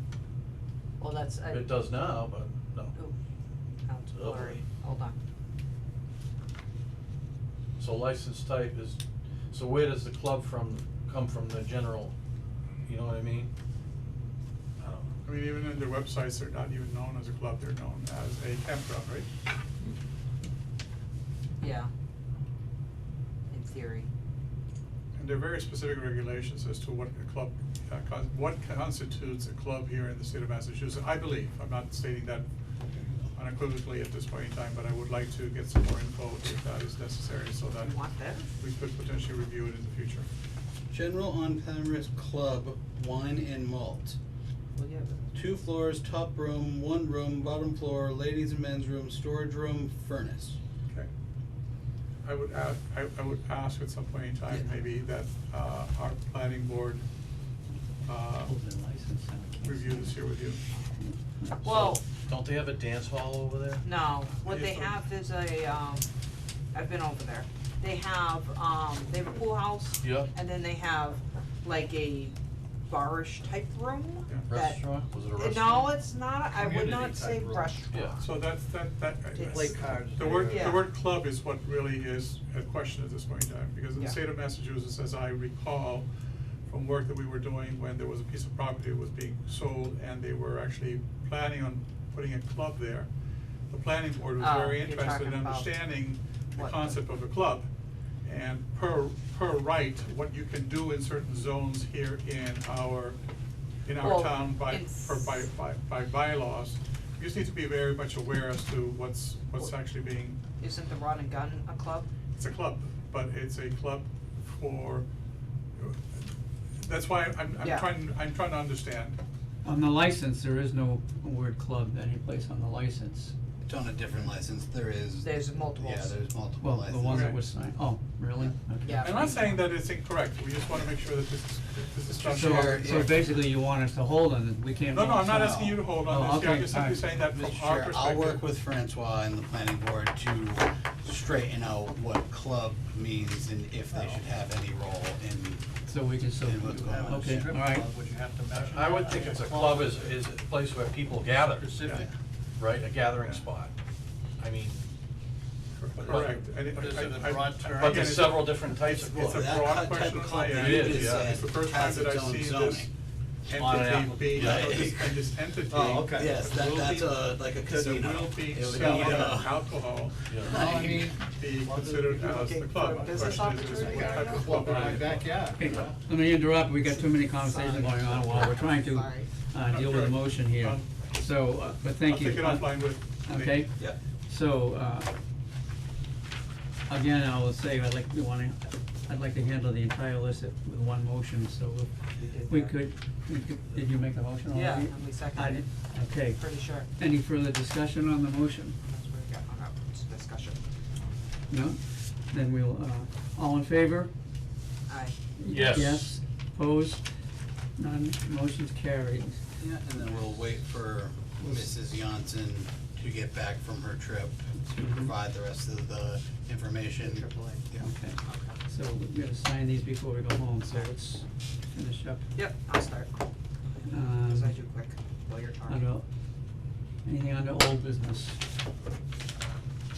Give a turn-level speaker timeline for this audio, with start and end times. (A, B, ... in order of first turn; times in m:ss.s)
0:01.0-0:01.8 A
0:01.5-0:03.0 B
0:03.8-0:05.2 A
0:04.1-0:04.6 B
0:07.8-0:09.0 B
0:09.5-0:12.1 B
0:12.8-0:13.5 B
0:14.8-0:15.2 B
0:15.2-0:19.3 C
0:21.6-0:21.9 A
0:23.5-0:24.1 A
0:25.2-0:32.4 C
0:33.3-0:38.0 C
0:37.8-0:38.5 A
0:38.6-0:40.3 C
0:40.9-0:44.2 D
0:44.8-0:45.6 A
0:45.3-0:50.6 D
0:52.2-0:57.0 C
0:58.0-0:58.6 C
0:58.4-1:00.3 E
0:59.6-1:00.6 C
1:01.0-1:01.7 E
1:01.6-1:02.0 A
1:01.6-1:03.8 B
1:03.8-1:06.1 A
1:04.4-1:05.0 C
1:06.7-1:12.4 A
1:10.0-1:10.3 B
1:12.9-1:18.4 A
1:14.5-1:16.0 B
1:16.6-1:17.7 F
1:17.9-1:18.2 B
1:18.2-1:26.0 C
1:19.3-1:20.9 A
1:19.5-1:20.8 F
1:26.6-1:33.1 C
1:33.7-1:37.7 C
1:34.4-1:35.8 A
1:36.5-1:37.0 A
1:38.2-1:43.2 C
1:43.8-1:50.4 C
1:44.0-1:45.4 A
1:50.6-1:52.1 A
1:52.3-1:55.0 C
1:55.7-1:56.3 C
1:56.8-1:59.2 C
1:57.6-1:57.9 A
1:59.6-2:03.3 E
2:03.6-2:07.3 D
2:05.2-2:06.2 A
2:06.6-2:09.4 E
2:07.0-2:07.4 C
2:08.8-2:09.7 A
2:09.0-2:13.1 C
2:12.1-2:13.2 D
2:12.3-2:17.1 E
2:14.9-2:18.4 C
2:15.4-2:15.8 D
2:17.3-2:25.7 D
2:25.9-2:27.9 E
2:26.4-2:27.7 D
2:27.4-2:30.0 F
2:28.5-2:31.8 B
2:31.6-2:32.0 F
2:31.9-2:32.1 D
2:32.6-2:33.7 B
2:34.4-2:34.8 B
2:35.8-2:42.9 C
2:36.0-2:36.4 B
2:36.6-2:38.3 F
2:37.8-2:39.8 B
2:39.0-2:42.9 D
2:40.5-2:41.4 B
2:43.5-2:46.8 C
2:43.5-2:44.8 B
2:44.3-2:45.2 D
2:45.7-2:47.0 F
2:46.1-2:49.7 D
2:47.7-2:49.4 F
2:47.9-2:55.5 C
2:50.3-2:50.6 B
2:50.4-2:51.1 D
2:50.5-2:55.9 F
2:52.1-2:54.8 A
2:55.5-3:05.1 E
2:56.8-2:59.3 A
2:59.7-3:03.7 C
3:06.9-3:11.9 E
3:12.2-3:12.8 A
3:12.4-3:18.7 E
3:14.5-3:16.9 A
3:18.8-3:20.6 A
3:21.5-3:21.8 E
3:22.3-3:24.1 E
3:24.9-3:25.2 A
3:25.4-3:27.0 E
3:25.4-3:26.1 B
3:27.8-3:29.4 E
3:29.6-3:37.9 D
3:31.4-3:31.8 E
3:34.7-3:35.1 E
3:37.0-3:37.6 A
3:37.8-3:42.2 E
3:38.2-3:38.6 A
3:42.3-3:45.9 A
3:43.9-3:44.6 E
3:45.7-3:46.0 E
3:47.0-3:48.3 E